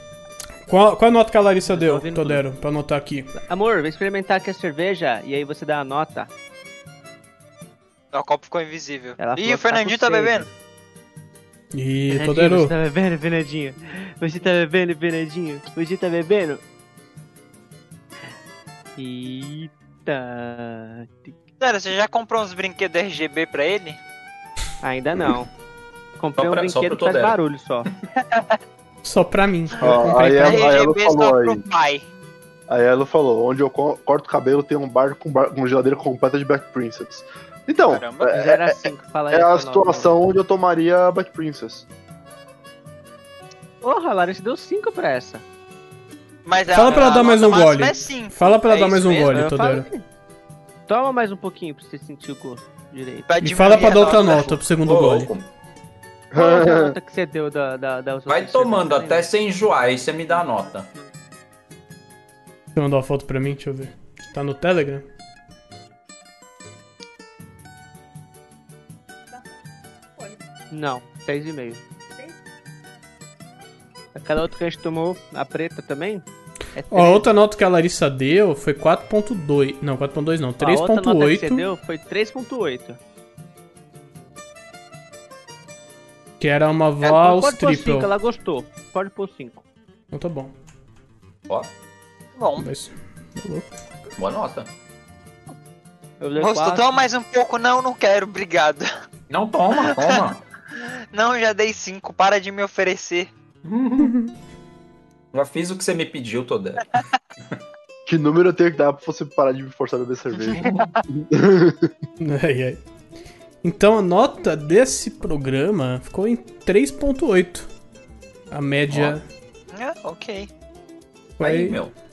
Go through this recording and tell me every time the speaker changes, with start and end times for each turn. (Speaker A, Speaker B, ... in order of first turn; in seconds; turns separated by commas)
Speaker A: 0.7-3.3, Speaker B: 1.7-2.4, Speaker B: 3.4-6.3, Speaker C: 8.1-10.5, Speaker B: 9.2-10.5, Speaker A: 11.7-12.7, Speaker B: 12.1-16.6, Speaker B: 19.0-21.4, Speaker C: 21.6-24.0, Speaker B: 24.8-25.5, Speaker B: 26.2-27.9, Speaker D: 26.4-27.4, Speaker C: 28.2-28.6, Speaker A: 29.0-30.7, Speaker E: 29.8-31.6, Speaker C: 30.4-32.0, Speaker E: 32.7-41.9, Speaker C: 37.9-38.4, Speaker B: 38.3-40.1, Speaker B: 43.8-45.4, Speaker C: 46.4-49.5, Speaker A: 46.7-49.9, Speaker B: 49.3-50.0, Speaker B: 50.9-53.3, Speaker C: 53.2-54.6, Speaker A: 53.4-55.3, Speaker D: 54.8-55.5, Speaker E: 56.3-57.0, Speaker B: 56.3-59.3, Speaker D: 58.3-60.9, Speaker A: 62.7-65.0, Speaker B: 70.7-71.8, Speaker B: 74.1-77.3, Speaker A: 76.9-81.7, Speaker B: 80.6-83.0, Speaker A: 86.4-88.1, Speaker B: 87.0-89.6, Speaker A: 90.1-90.5, Speaker C: 92.3-92.7, Speaker A: 92.6-93.7, Speaker D: 94.2-94.7, Speaker B: 96.2-97.0, Speaker C: 96.4-98.9, Speaker D: 99.3-100.4, Speaker C: 99.9-100.2, Speaker C: 100.8-103.3, Speaker D: 103.6-104.2, Speaker A: 104.0-104.3, Speaker D: 105.3-107.6, Speaker E: 108.0-111.9, Speaker C: 110.5-111.0, Speaker A: 112.2-112.8, Speaker A: 113.6-117.7, Speaker A: 118.5-119.2, Speaker D: 118.9-119.2, Speaker C: 119.7-120.5, Speaker A: 121.4-121.8, Speaker D: 121.4-121.9